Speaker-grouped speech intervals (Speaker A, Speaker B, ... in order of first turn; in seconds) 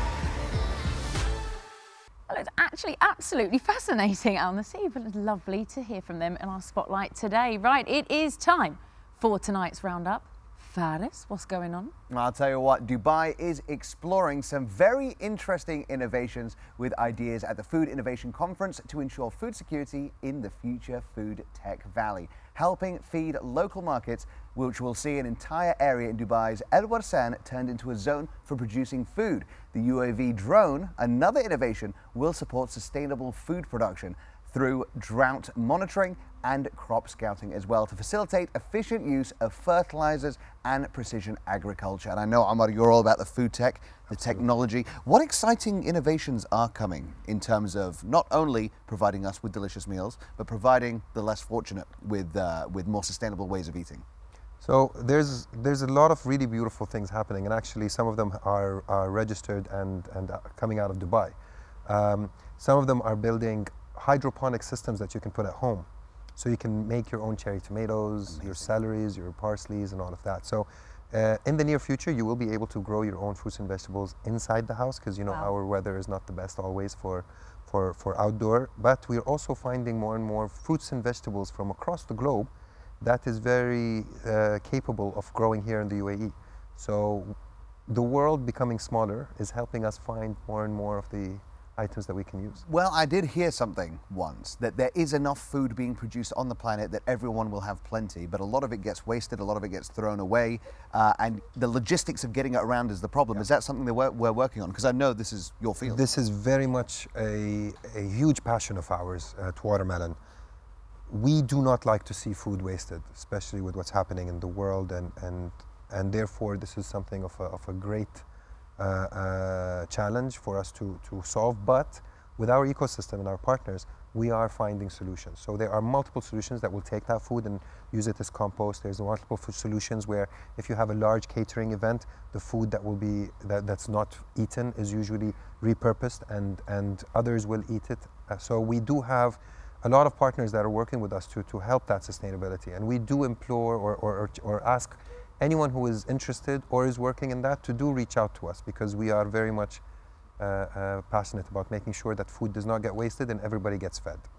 Speaker A: 2.3-11.9
Speaker B: 12.1-54.0, 68.2-68.7, 92.7-106.2
Speaker C: 44.1-44.4, 54.6-82.5, 83.0-87.4, 87.9-92.6, 105.8-110.2, 111.1-118.2, 118.8-149.8, 150.4-154.3